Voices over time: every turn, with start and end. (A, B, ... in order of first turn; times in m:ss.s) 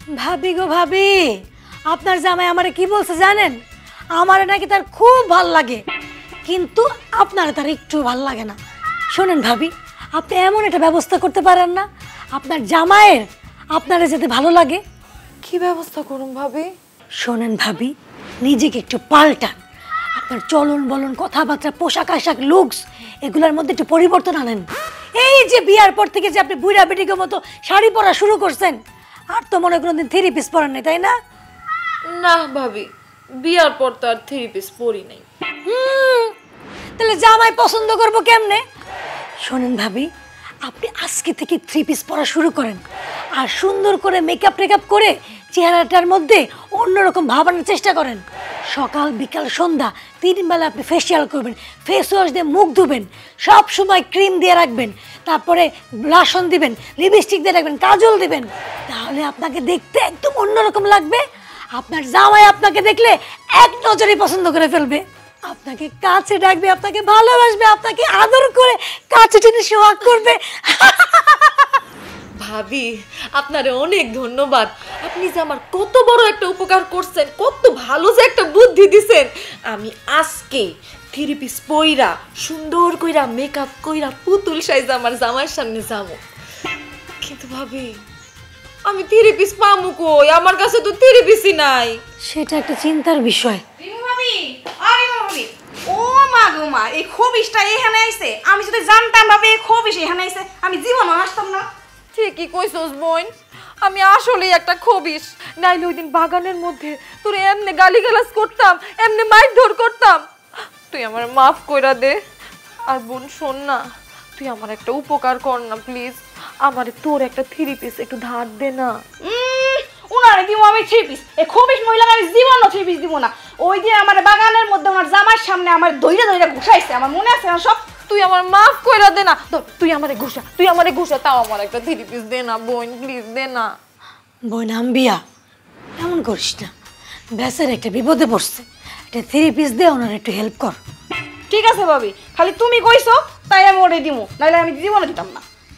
0:00.2-0:01.4 A
0:01.9-0:03.5 A
0:04.2-0:05.8 A
0:06.4-0:08.6 A
0:09.1-0:14.8 A
0:15.4-0:16.7 B
0:17.2-0:19.6 A
0:20.2-0:24.7 A
0:25.2-0:28.8 A
0:29.3-0:31.1 A
0:32.1-0:35.2 B
0:35.6-0:36.3 A
0:37.0-0:38.6 A
0:39.4-0:40.1 A
0:40.6-0:42.8 A
0:43.4-1:01.2 A
1:01.7-1:11.7 A
1:12.4-1:26.2 B
1:27.2-1:28.0 B
1:28.8-1:32.0 B
1:32.2-1:33.6 A
1:33.8-1:41.6 C
1:42.1-1:43.3 B
1:43.8-1:50.2 B
1:50.9-1:52.2 B
1:52.9-1:53.8 B
1:54.4-1:59.0 B
1:59.2-2:07.8 C
2:08.1-2:13.7 B
2:14.5-2:15.2 A
2:16.0-2:16.7 A
2:17.4-2:20.8 A
2:21.5-2:25.4 C